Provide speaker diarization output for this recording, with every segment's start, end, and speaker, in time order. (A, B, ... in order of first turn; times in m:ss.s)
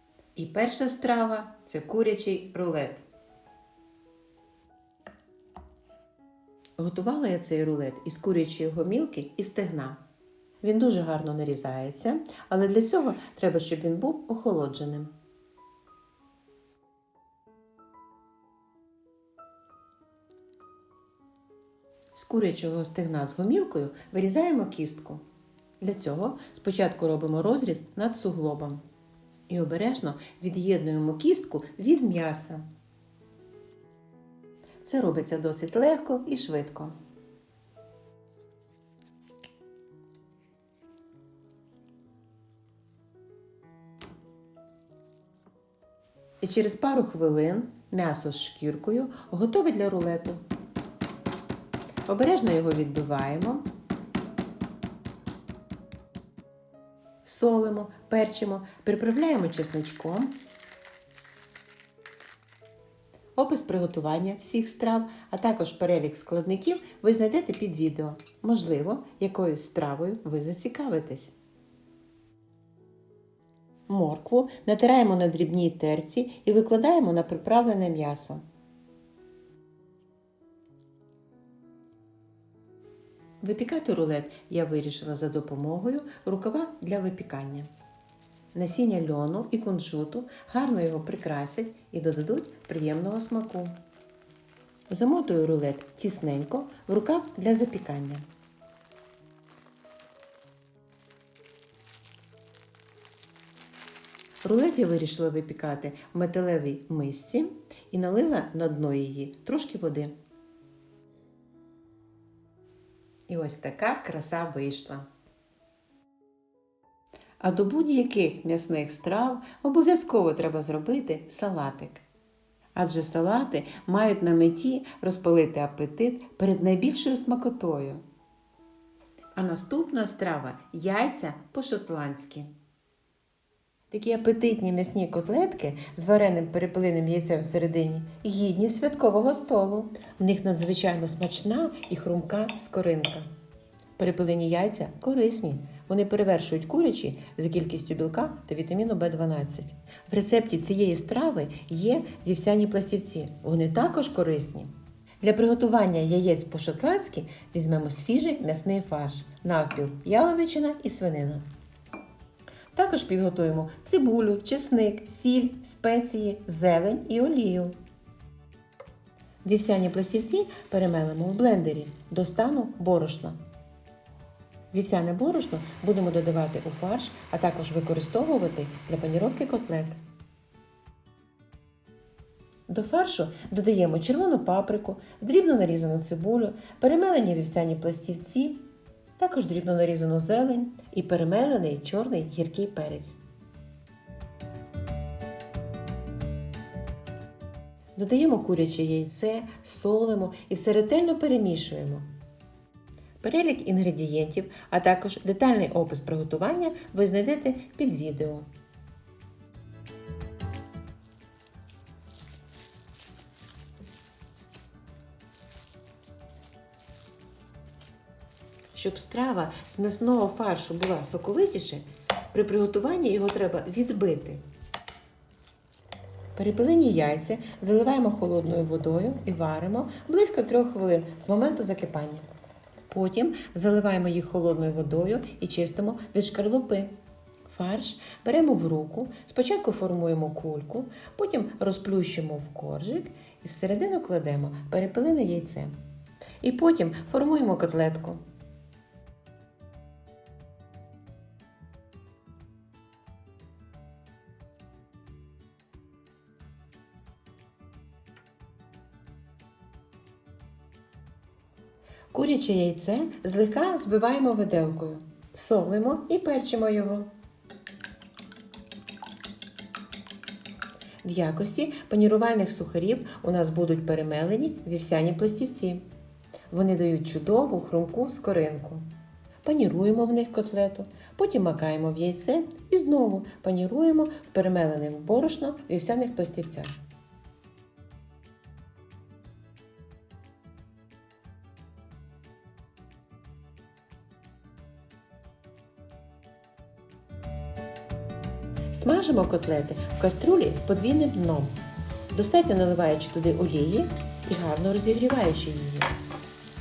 0:00.4-0:03.1 A
0:06.8-0:10.0 A
0:10.6-0:15.1 A
0:22.1-0:25.2 A
0:25.8-0:28.8 A
0:29.5-0:32.7 A
0:34.8-0:37.0 A
0:46.4-0:50.4 A
0:52.1-0:53.6 A
0:57.2-1:00.4 A
1:03.4-1:11.4 A
1:13.9-1:18.4 A
1:23.4-1:27.7 A
1:28.5-1:33.8 A
1:34.9-1:38.2 A
1:44.4-1:50.1 A
1:53.3-1:55.1 A
1:57.4-2:02.1 A
2:02.8-2:08.0 A
2:09.4-2:12.5 A
2:13.9-2:23.3 A
2:24.0-2:34.7 A
2:35.2-2:41.4 A
2:42.7-2:47.7 A
2:49.4-2:53.4 A
2:54.7-3:00.0 A
3:02.7-3:08.6 A
3:09.2-3:13.2 A
3:18.0-3:22.1 A
3:23.2-3:28.5 A
3:38.7-3:44.4 A
3:46.4-3:52.3 A
3:52.9-3:56.9 A
3:57.5-4:05.8 A
4:06.4-4:08.2 A
4:22.1-4:27.1 A
4:31.0-4:35.8 A
4:36.5-4:38.9 A
4:39.4-4:46.8 A
4:58.7-5:01.6 A
5:02.1-5:05.9 A